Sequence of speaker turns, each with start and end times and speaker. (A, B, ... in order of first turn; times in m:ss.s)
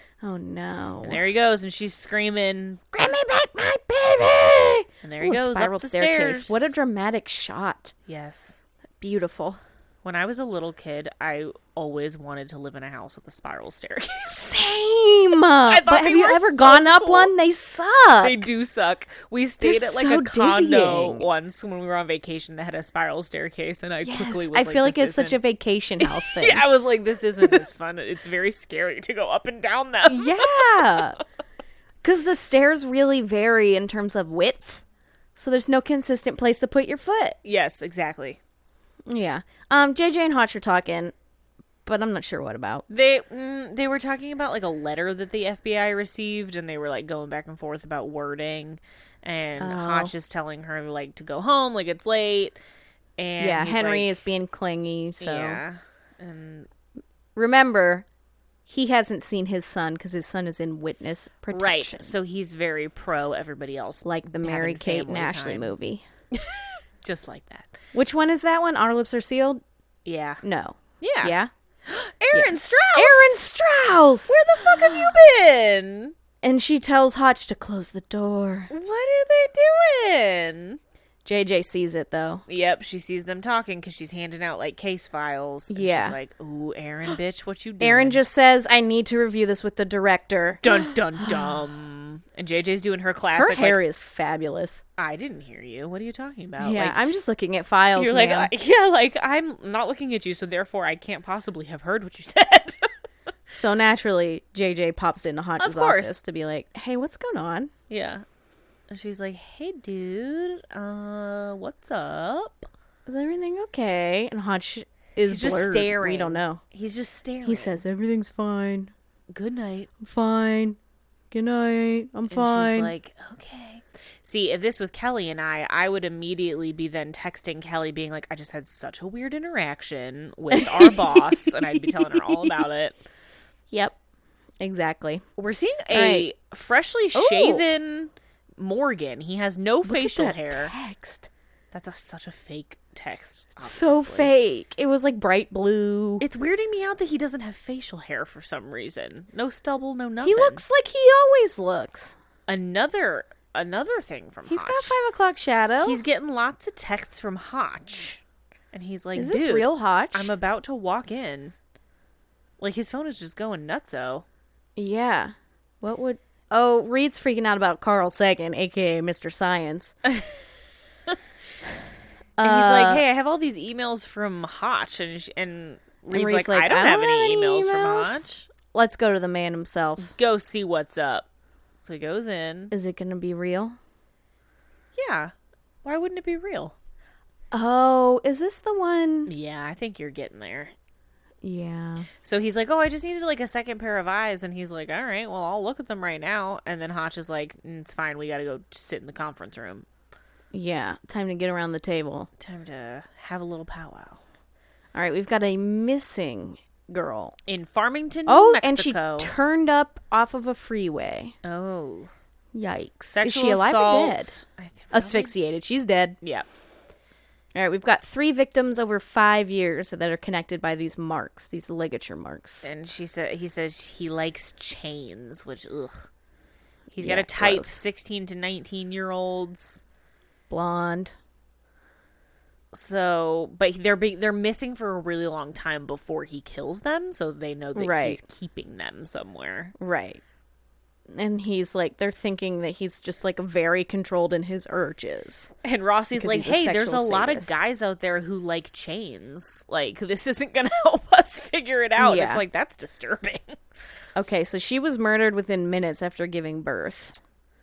0:00.2-0:01.2 A
0:01.0-0:03.0 B
0:02.9-0:07.9 A
0:05.0-0:06.7 B
0:08.1-0:08.6 B
0:09.0-0:09.6 A
0:10.0-0:14.5 B
0:14.4-0:18.4 A
0:15.6-0:17.3 B
0:18.2-0:25.4 B
0:19.6-0:21.3 A
0:24.0-0:26.6 A
0:26.0-0:31.0 B
0:30.1-0:31.2 A
0:32.0-0:34.8 A
0:35.4-0:37.4 A
0:37.4-0:38.4 B
0:39.1-0:41.1 A
0:41.8-0:42.8 A
0:42.9-0:52.6 B
0:49.6-0:50.1 A
0:53.2-0:54.2 B
0:53.4-0:55.6 A
0:55.2-0:56.7 B
0:57.4-0:58.0 A
0:58.7-1:02.1 A
1:01.5-1:05.7 B
1:04.0-1:06.0 A
1:06.3-1:07.7 B
1:07.9-1:09.6 A
1:10.0-1:10.4 B
1:10.4-1:11.5 A
1:11.0-1:11.3 B
1:11.8-1:13.4 B
1:12.3-1:15.1 A
1:14.3-1:16.1 B
1:16.4-1:18.7 A
1:18.7-1:20.8 B
1:21.2-1:22.4 A
1:22.5-1:28.2 B
1:25.7-1:26.2 A
1:27.8-1:31.5 A
1:30.6-1:33.8 B
1:33.3-1:34.8 A
1:35.0-1:37.0 B
1:36.6-1:38.5 A
1:37.9-1:42.9 B
1:43.5-1:47.7 A
1:45.6-1:46.2 B
1:47.9-1:48.2 B
1:48.9-1:52.7 B
1:53.0-1:56.6 A
1:55.2-1:57.8 B
1:57.4-1:58.9 A
1:59.3-1:59.9 B
2:00.0-2:00.8 A
2:01.3-2:02.9 A
2:02.3-2:13.0 B
2:10.5-2:12.6 A
2:13.7-2:14.0 A
2:14.6-2:15.2 A
2:15.4-2:20.7 B
2:15.9-2:16.3 A
2:17.1-2:17.6 A
2:19.8-2:21.3 A
2:21.7-2:24.3 B
2:23.6-2:26.2 A
2:26.2-2:30.6 B
2:30.2-2:32.2 A
2:32.5-2:35.0 B
2:34.5-2:36.0 A
2:35.8-2:41.5 B
2:39.1-2:40.3 A
2:42.6-2:44.2 B
2:44.8-2:49.9 A
2:52.4-2:53.0 A
2:52.4-2:58.5 B
2:56.1-3:00.1 A
3:00.1-3:01.2 B
3:01.8-3:02.7 B
3:02.7-3:03.8 A
3:04.9-3:05.3 B
3:05.8-3:06.7 B
3:07.5-3:09.3 A
3:09.3-3:10.7 B
3:11.4-3:12.1 A
3:12.2-3:19.8 B
3:20.5-3:22.3 A
3:22.4-3:24.2 B
3:24.9-3:27.4 A
3:27.5-3:29.3 B
3:28.3-3:31.3 A
3:31.4-3:32.1 B
3:32.5-3:34.3 A
3:33.1-3:35.3 B
3:34.9-3:36.2 A
3:36.2-3:36.5 B
3:37.5-3:42.7 A
3:42.6-3:46.1 B
3:46.9-3:49.8 B
3:46.9-3:47.8 A
3:50.5-3:51.1 A
3:52.7-3:59.7 B
3:57.7-3:58.2 A
3:59.8-4:00.2 A
4:01.1-4:05.5 A
4:05.6-4:13.6 B
4:06.2-4:07.6 A
4:12.0-4:12.4 A
4:14.2-4:17.2 A